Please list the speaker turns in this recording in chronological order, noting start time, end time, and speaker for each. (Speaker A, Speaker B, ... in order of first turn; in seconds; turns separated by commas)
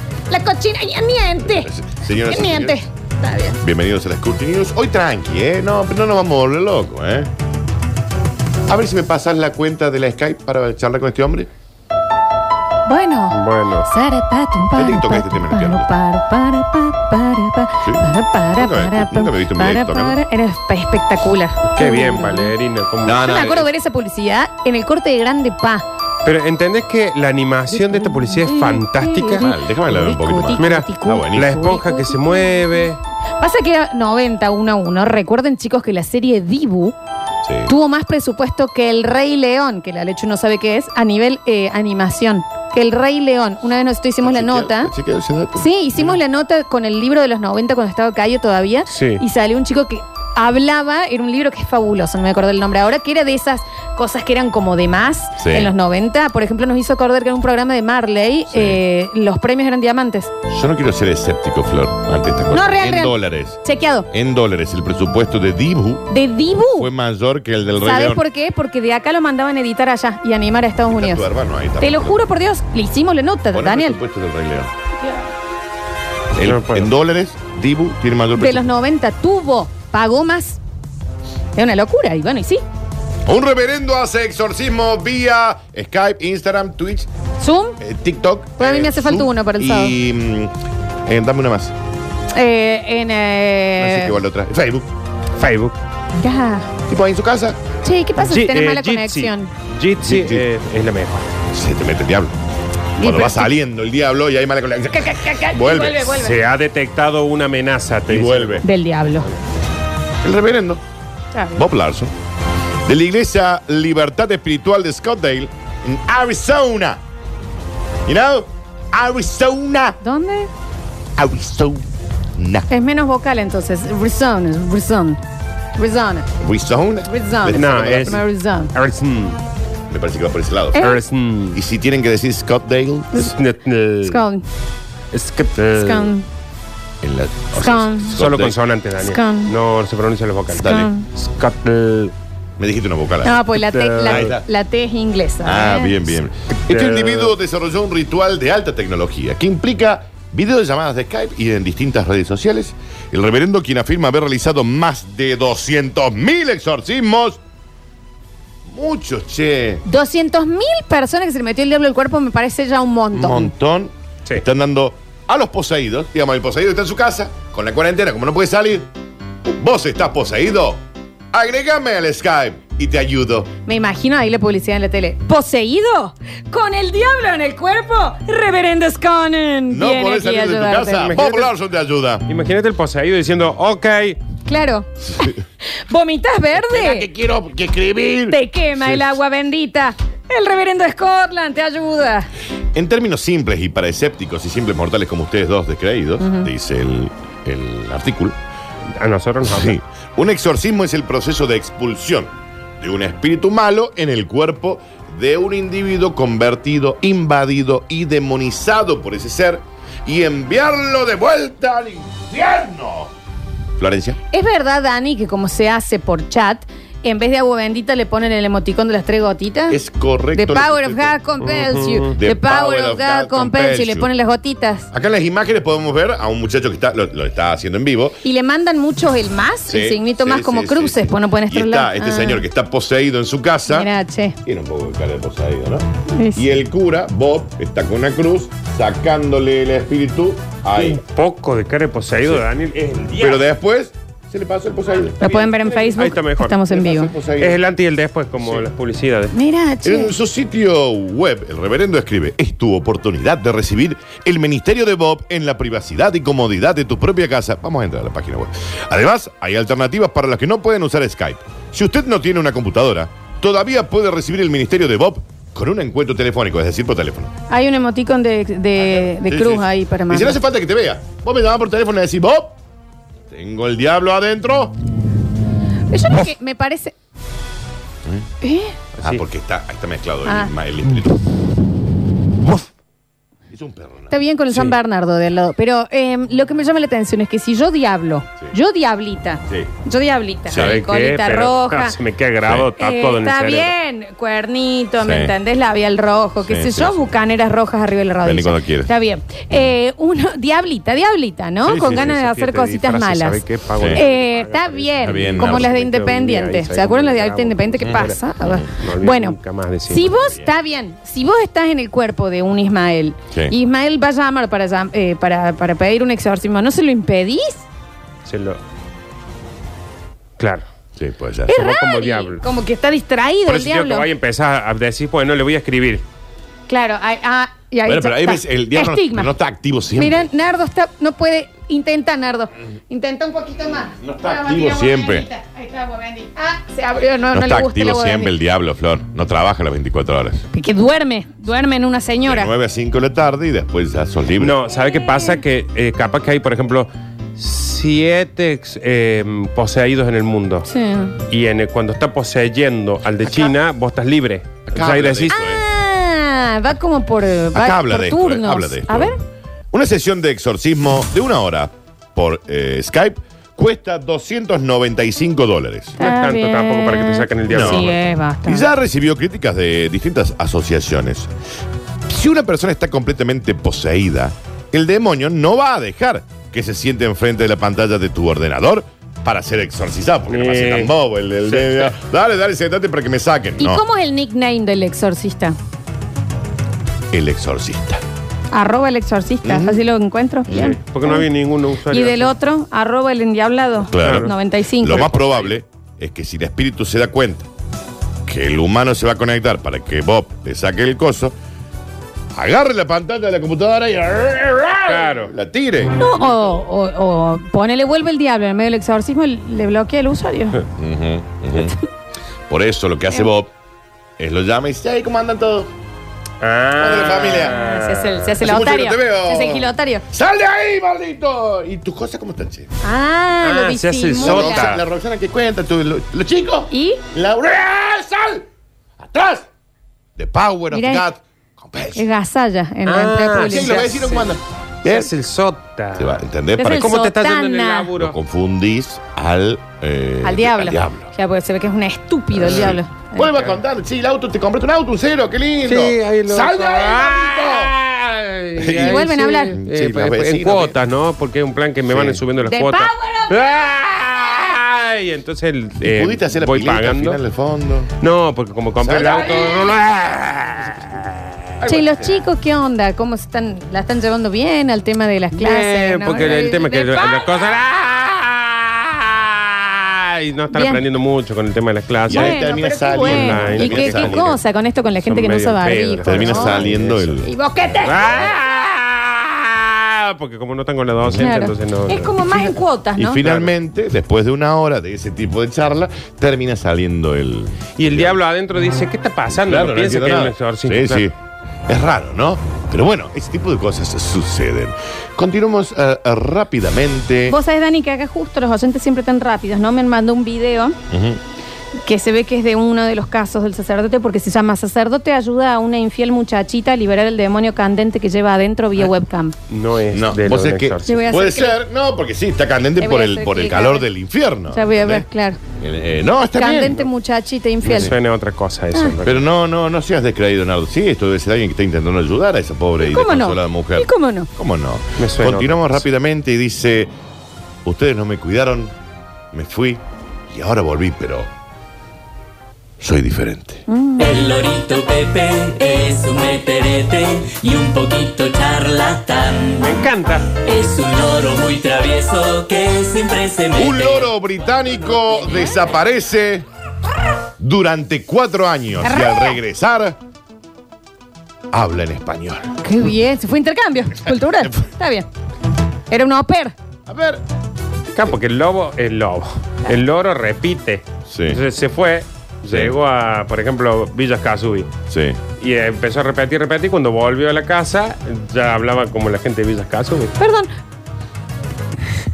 Speaker A: 0.3-1.7, Speaker B: 1.4-2.8, Speaker A: 2.2-3.6, Speaker B: 3.6-7.3, Speaker B: 8.7-11.5, Speaker A: 12.9-22.5, Speaker C: 13.3-13.9, Speaker B: 14.7-15.9, Speaker B: 17.8-20.2, Speaker C: 21.7-23.2, Speaker B: 23.0-23.7, Speaker A: 23.1-25.8, Speaker C: 26.2-29.5, Speaker A: 27.7-32.8, Speaker B: 29.4-31.6, Speaker C: 30.6-33.0, Speaker A: 33.4-37.0, Speaker B: 37.4-37.7, Speaker A: 37.7-44.9, Speaker B: 44.2-45.7, Speaker A: 45.5-60.3, Speaker C: 48.9-49.2, Speaker B: 55.4-55.7, Speaker B: 58.5-58.8, Speaker B: 60.5-66.1, Speaker A: 62.5-64.1, Speaker A: 66.1-66.9, Speaker B: 66.7-68.2, Speaker A: 67.8-71.2, Speaker B: 71.0-72.2, Speaker A: 71.8-74.0, Speaker B: 73.5-74.7, Speaker B: 76.3-78.7, Speaker C: 76.4-76.9, Speaker A: 78.4-80.6, Speaker A: 81.5-82.6, Speaker B: 83.2-87.1, Speaker A: 87.4-87.8, Speaker B: 87.8-90.5, Speaker A: 88.6-89.9, Speaker B: 91.0-91.7, Speaker A: 92.3-94.2, Speaker B: 93.8-94.9, Speaker C: 95.3-95.8, Speaker A: 96.2-96.7, Speaker B: 96.9-97.6, Speaker A: 97.8-99.5, Speaker C: 98.2-101.2, Speaker B: 100.0-100.5, Speaker B: 101.5-102.3, Speaker A: 103.0-103.5, Speaker B: 103.0-106.2, Speaker A: 104.9-106.4, Speaker C: 106.2-108.7, Speaker B: 108.1-108.6, Speaker A: 108.6-109.3, Speaker B: 110.2-110.8, Speaker A: 111.3-111.6, Speaker B: 111.5-112.1, Speaker B: 112.8-117.0, Speaker B: 118.0-120.0, Speaker A: 120.0-120.5, Speaker B: 121.2-121.8, Speaker B: 122.3-122.7, Speaker A: 122.7-125.2, Speaker A: 125.8-126.3, Speaker B: 126.4-128.2, Speaker A: 127.1-128.7, Speaker C: 127.5-128.2, Speaker C: 128.7-129.4, Speaker B: 129.9-130.9, Speaker A: 130.7-131.0, Speaker C: 130.8-131.6, Speaker B: 131.5-133.3, Speaker C: 133.1-134.2, Speaker A: 134.0-134.4, Speaker C: 135.1-136.1, Speaker A: 135.7-136.2, Speaker B: 137.0-138.6, Speaker A: 137.6-138.2, Speaker C: 138.1-142.1, Speaker A: 139.0-139.5, Speaker B: 140.5-140.9, Speaker A: 140.6-141.0, Speaker B: 142.6-143.4, Speaker A: 143.2-146.0, Speaker C: 143.6-144.3, Speaker B: 144.0-144.5, Speaker B: 145.4-157.4, Speaker C: 146.6-147.3, Speaker B: 158.7-159.8, Speaker A: 159.8-163.5, Speaker B: 163.1-168.9, Speaker B: 169.4-170.8, Speaker B: 171.3-173.5, Speaker A: 173.6-181.1, Speaker B: 179.7-182.2, Speaker C: 181.0-181.5, Speaker C: 182.3-184.2, Speaker A: 184.4-187.1, Speaker B: 186.6-188.4, Speaker A: 188.3-192.3, Speaker B: 192.7-198.4, Speaker A: 196.2-196.5, Speaker C: 198.9-199.8, Speaker B: 199.4-213.1, Speaker B: 213.8-214.2, Speaker A: 214.3-219.8, Speaker B: 219.7-221.1, Speaker A: 220.3-224.9, Speaker C: 221.4-222.1, Speaker B: 222.1-224.1, Speaker B: 224.9-228.2, Speaker A: 228.2-232.4, Speaker B: 229.7-233.9, Speaker A: 233.7-234.4, Speaker B: 234.4-241.0, Speaker A: 236.1-236.5, Speaker C: 240.8-243.4, Speaker B: 243.2-245.3, Speaker C: 245.2-246.6, Speaker A: 245.2-247.1, Speaker B: 246.7-247.6, Speaker C: 247.4-249.3, Speaker B: 248.4-248.7, Speaker A: 249.3-250.1, Speaker B: 249.8-267.3, Speaker A: 267.5-270.4, Speaker B: 269.1-272.5, Speaker B: 273.3-274.7, Speaker A: 275.9-276.9, Speaker A: 278.4-278.7, Speaker C: 278.9-279.2, Speaker B: 279.0-281.2, Speaker A: 280.2-280.5, Speaker B: 283.5-284.1, Speaker A: 284.1-292.0, Speaker C: 284.5-284.8, Speaker B: 290.5-290.8, Speaker C: 290.5-293.7, Speaker B: 292.4-292.7, Speaker A: 292.8-303.4, Speaker B: 295.0-295.3, Speaker B: 296.5-297.0, Speaker B: 298.2-298.9, Speaker C: 301.6-308.2, Speaker B: 301.7-302.1, Speaker B: 303.8-304.0, Speaker A: 303.9-309.4, Speaker B: 305.0-305.8, Speaker B: 307.8-308.7, Speaker C: 308.7-310.2, Speaker A: 309.9-317.6, Speaker B: 310.2-310.4, Speaker C: 318.2-318.6, Speaker C: 320.4-320.6, Speaker B: 320.9-321.6, Speaker A: 321.5-324.1, Speaker C: 321.5-322.4, Speaker C: 323.4-326.0, Speaker A: 326.7-329.3, Speaker B: 327.8-330.3, Speaker A: 329.9-338.3, Speaker B: 334.0-335.3, Speaker B: 337.3-340.4, Speaker A: 340.5-342.5, Speaker B: 342.2-344.6, Speaker C: 344.4-350.7, Speaker A: 344.7-345.4, Speaker A: 350.6-351.2, Speaker C: 351.3-355.4, Speaker B: 354.7-355.6, Speaker A: 355.3-359.2, Speaker B: 357.5-359.1, Speaker B: 359.7-365.9, Speaker A: 366.0-368.7, Speaker C: 366.0-368.0, Speaker B: 367.5-367.9, Speaker B: 368.4-371.3, Speaker B: 372.1-383.8, Speaker C: 380.3-380.9, Speaker C: 381.5-381.9, Speaker A: 383.6-385.6, Speaker B: 387.1-388.0, Speaker A: 388.5-391.3, Speaker B: 389.4-389.8, Speaker C: 390.5-392.3, Speaker A: 391.9-395.1, Speaker B: 393.9-397.5, Speaker C: 394.0-395.5, Speaker B: 398.2-401.3, Speaker B: 402.3-406.1, Speaker C: 404.9-405.3, Speaker A: 406.0-410.6, Speaker B: 410.7-411.8, Speaker B: 412.5-413.5, Speaker B: 414.2-415.7, Speaker C: 416.4-418.3, Speaker B: 416.8-417.6, Speaker A: 417.5-420.1, Speaker B: 418.4-422.7, Speaker A: 422.8-424.7, Speaker C: 423.4-424.8, Speaker B: 424.2-428.4, Speaker A: 426.7-427.0, Speaker B: 429.0-429.5, Speaker B: 430.2-432.1, Speaker A: 430.7-431.1, Speaker A: 431.9-434.0, Speaker C: 432.9-434.3, Speaker B: 433.4-435.1, Speaker C: 434.8-438.1, Speaker B: 435.9-437.0, Speaker A: 436.6-437.9, Speaker B: 437.9-441.1, Speaker A: 440.2-443.3, Speaker B: 442.3-447.7, Speaker C: 445.6-457.2, Speaker B: 448.6-450.8, Speaker A: 448.7-449.6, Speaker B: 451.9-452.2, Speaker A: 452.4-453.4, Speaker B: 455.8-457.9, Speaker C: 458.0-461.1, Speaker B: 458.8-459.7, Speaker B: 461.6-462.2, Speaker A: 461.6-467.3, Speaker C: 465.4-472.5, Speaker A: 470.5-470.8, Speaker B: 472.1-474.4, Speaker A: 472.1-476.7, Speaker C: 473.0-474.4, Speaker C: 475.0-477.2, Speaker B: 476.1-477.3, Speaker A: 477.2-478.3, Speaker C: 477.8-482.5, Speaker B: 481.0-481.3, Speaker A: 481.1-483.2, Speaker B: 482.9-488.2, Speaker C: 483.2-483.5, Speaker C: 487.8-491.1, Speaker B: 489.3-491.1, Speaker B: 491.7-497.4, Speaker A: 497.3-500.8, Speaker B: 500.9-501.2, Speaker A: 501.8-509.3, Speaker C: 509.5-511.0, Speaker B: 509.9-515.0, Speaker A: 510.9-511.6, Speaker A: 512.8-513.9, Speaker A: 514.5-515.4, Speaker B: 515.6-516.8, Speaker A: 516.4-517.9, Speaker C: 517.6-519.2, Speaker B: 517.7-517.9, Speaker B: 519.0-526.9, Speaker A: 522.8-524.3, Speaker C: 525.0-525.8, Speaker B: 527.6-528.7, Speaker B: 529.3-531.3, Speaker B: 532.8-533.6, Speaker A: 533.7-534.1, Speaker D: 534.0-544.1, Speaker C: 539.6-540.3, Speaker B: 543.5-546.5, Speaker B: 547.4-550.0, Speaker A: 548.8-549.4, Speaker B: 551.5-552.5, Speaker A: 552.6-555.1, Speaker B: 554.0-554.5, Speaker A: 555.9-556.5, Speaker B: 556.9-557.2, Speaker C: 557.9-564.7, Speaker B: 561.1-561.4, Speaker B: 562.5-562.7, Speaker B: 564.9-565.2, Speaker C: 565.4-570.1, Speaker A: 570.2-570.5